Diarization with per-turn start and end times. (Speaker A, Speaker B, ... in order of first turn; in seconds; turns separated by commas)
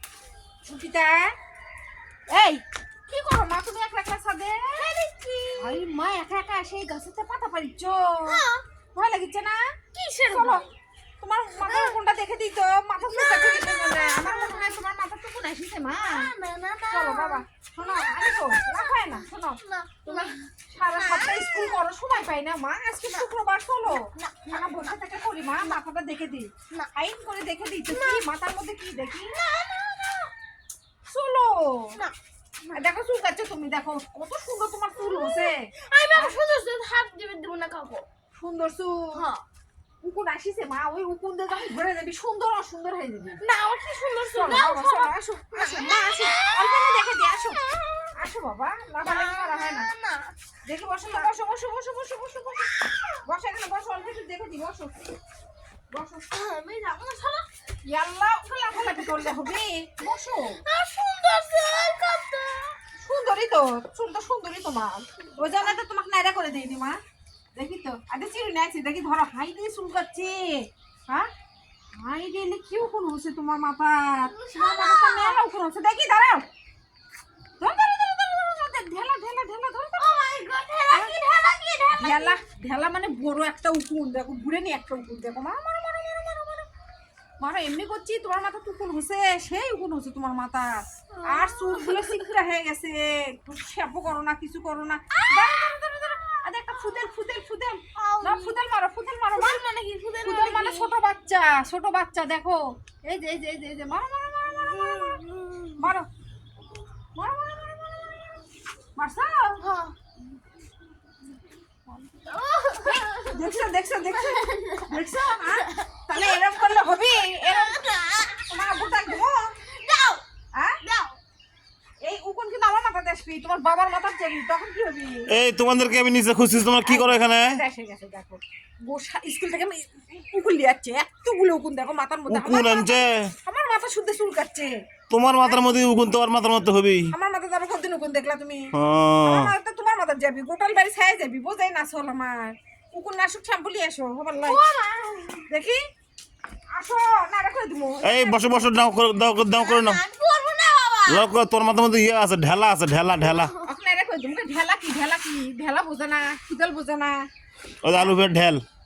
Speaker A: 0.7-1.3, Speaker A: 2.3-4.8, Speaker B: 4.8-5.8, Speaker A: 5.6-8.4, Speaker B: 8.2-8.6, Speaker A: 8.9-9.6, Speaker B: 9.9-10.7, Speaker A: 10.3-10.7, Speaker A: 11.2-16.3, Speaker B: 11.7-12.0, Speaker B: 13.1-14.8, Speaker B: 16.0-21.8, Speaker A: 16.9-29.4, Speaker B: 23.9-24.9, Speaker B: 27.9-28.2, Speaker B: 29.2-30.3, Speaker A: 31.1-32.0, Speaker A: 32.7-36.4, Speaker B: 35.0-38.0, Speaker A: 38.4-39.2, Speaker B: 39.1-39.4, Speaker A: 40.0-43.4, Speaker B: 43.4-47.0, Speaker A: 44.3-47.6, Speaker B: 47.6-48.1, Speaker A: 48.1-49.9, Speaker B: 49.0-50.3, Speaker A: 50.6-55.0, Speaker A: 55.9-56.3, Speaker B: 56.3-57.5, Speaker A: 57.9-60.6, Speaker B: 60.6-62.8, Speaker A: 63.0-67.0, Speaker A: 67.5-71.3, Speaker A: 71.9-76.5, Speaker B: 74.2-75.4, Speaker A: 77.6-80.0, Speaker B: 80.0-82.4, Speaker A: 82.0-86.7, Speaker A: 87.4-99.6, Speaker B: 91.1-92.3, Speaker B: 95.2-95.7, Speaker B: 98.0-98.6, Speaker B: 99.3-100.9, Speaker A: 100.2-105.2, Speaker B: 104.7-105.9, Speaker A: 105.8-106.1, Speaker A: 107.2-108.4, Speaker A: 109.0-109.6, Speaker B: 109.6-110.0, Speaker B: 112.2-113.6, Speaker A: 112.8-117.9, Speaker B: 114.2-114.9, Speaker B: 115.7-116.2, Speaker B: 117.4-119.1, Speaker A: 118.5-119.5, Speaker B: 119.6-120.2, Speaker A: 120.5-120.8, Speaker B: 120.8-121.2, Speaker A: 122.0-125.3, Speaker C: 125.3-127.6, Speaker A: 126.8-134.8, Speaker C: 132.3-133.3, Speaker C: 135.1-137.1, Speaker A: 137.1-144.6, Speaker C: 138.7-139.5, Speaker B: 144.4-145.5, Speaker A: 145.5-145.8, Speaker A: 146.7-148.7, Speaker C: 148.0-150.0, Speaker B: 149.6-151.3, Speaker C: 151.1-153.5, Speaker B: 153.2-153.6, Speaker A: 153.6-157.2, Speaker C: 157.8-158.6, Speaker A: 157.9-158.2